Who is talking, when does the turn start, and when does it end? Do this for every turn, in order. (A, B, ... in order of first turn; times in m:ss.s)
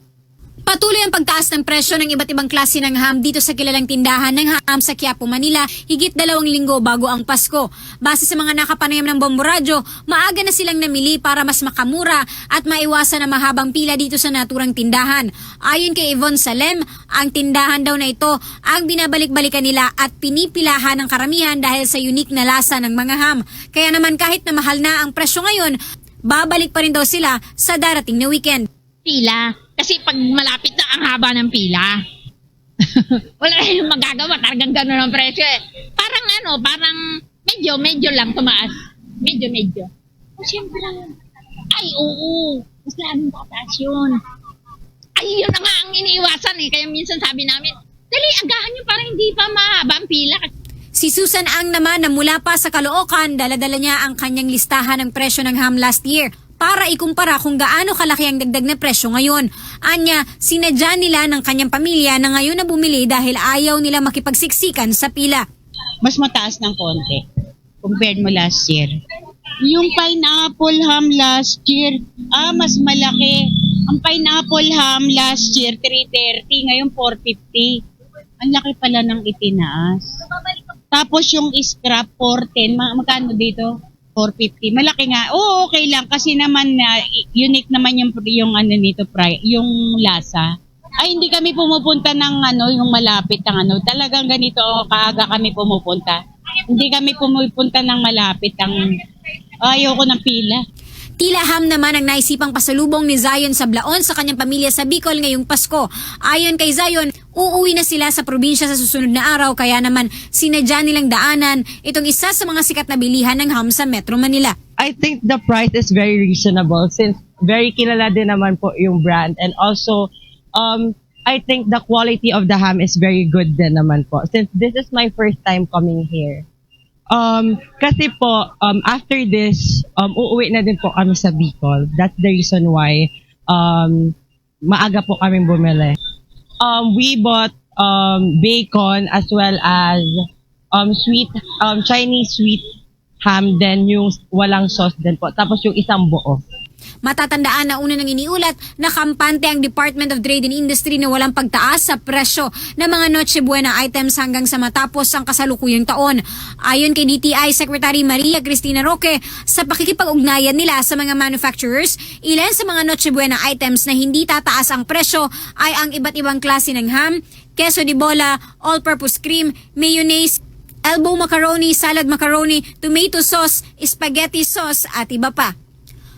0:00.7-0:25.8 A
0:26.3-0:28.7 A
0:29.0-0:32.0 B
0:32.9-0:41.2 B
0:41.7-0:44.2 B
0:45.2-0:50.5 B
0:51.0-1:05.4 A
1:06.0-1:07.2 C
1:07.8-1:08.9 C
1:09.7-1:13.3 C
1:13.9-1:17.7 C
1:18.4-1:20.0 C
1:20.9-1:30.5 C
1:31.0-1:36.2 C
1:36.7-1:38.8 C
1:39.7-1:40.6 C
1:41.2-1:54.5 A
1:54.8-2:06.4 D
2:07.1-2:16.0 D
2:16.6-2:20.1 D
2:20.7-2:22.6 D
2:23.2-2:26.4 D
2:27.0-2:55.5 A